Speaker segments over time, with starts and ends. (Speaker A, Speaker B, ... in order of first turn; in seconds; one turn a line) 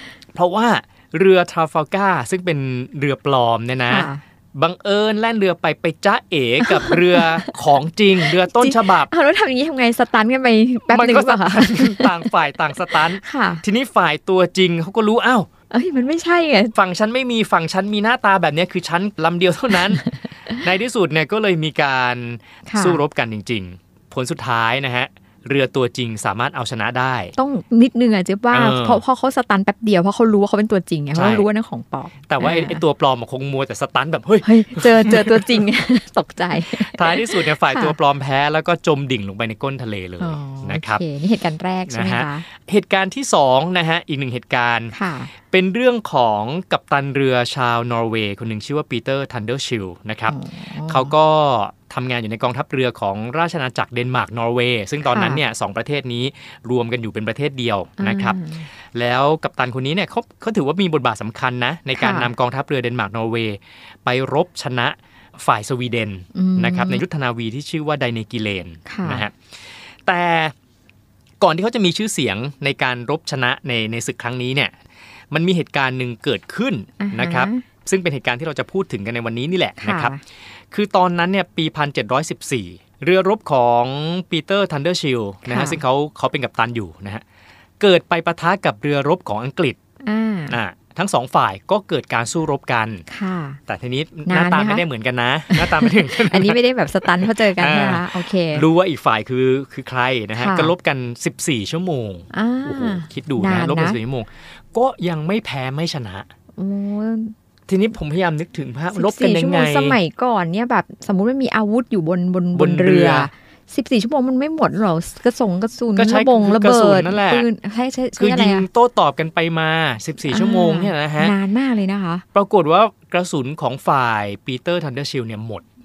Speaker A: 0.3-9.1
Speaker B: 3.9-4.2
Speaker B: 6.6-7.5
Speaker B: 8.2-12.3
Speaker A: 10.9-15.5
Speaker B: 12.9-13.6
Speaker B: 15.7-16.7
Speaker A: 16.7-27.4
Speaker B: 22.7-23.0
Speaker B: 27.4-32.8
Speaker A: 28.5-29.0
Speaker A: 31.1-31.5
Speaker A: 32.3-35.6
Speaker B: 34.4-38.0
Speaker A: 36.6-41.0
Speaker B: 40.2-42.5
Speaker A: 41.9-69.3
Speaker B: 44.9-45.3
Speaker B: 50.3-51.1
Speaker B: 55.1-55.4
Speaker B: 58.0-58.7
Speaker B: 62.0-62.3
Speaker B: 66.3-67.0
Speaker B: 68.9-69.3
Speaker A: 70.1-70.5
Speaker A: 71.4-74.7
Speaker A: 75.3-80.1
Speaker B: 77.0-77.6
Speaker B: 79.8-80.2
Speaker A: 80.7-87.2
Speaker B: 85.5-85.8
Speaker A: 87.8-89.8
Speaker B: 90.0-90.6
Speaker A: 90.5-93.0
Speaker B: 93.1-93.6
Speaker A: 93.7-96.6
Speaker B: 94.3-94.8
Speaker B: 95.5-98.7
Speaker A: 97.2-106.3
Speaker B: 100.4-100.7
Speaker B: 102.3-104.0
Speaker B: 106.6-107.3
Speaker A: 107.7-110.0
Speaker B: 108.9-118.7
Speaker A: 112.5-113.3
Speaker A: 116.0-117.5
Speaker A: 118.2-121.3
Speaker B: 120.3-122.2
Speaker A: 122.3-125.6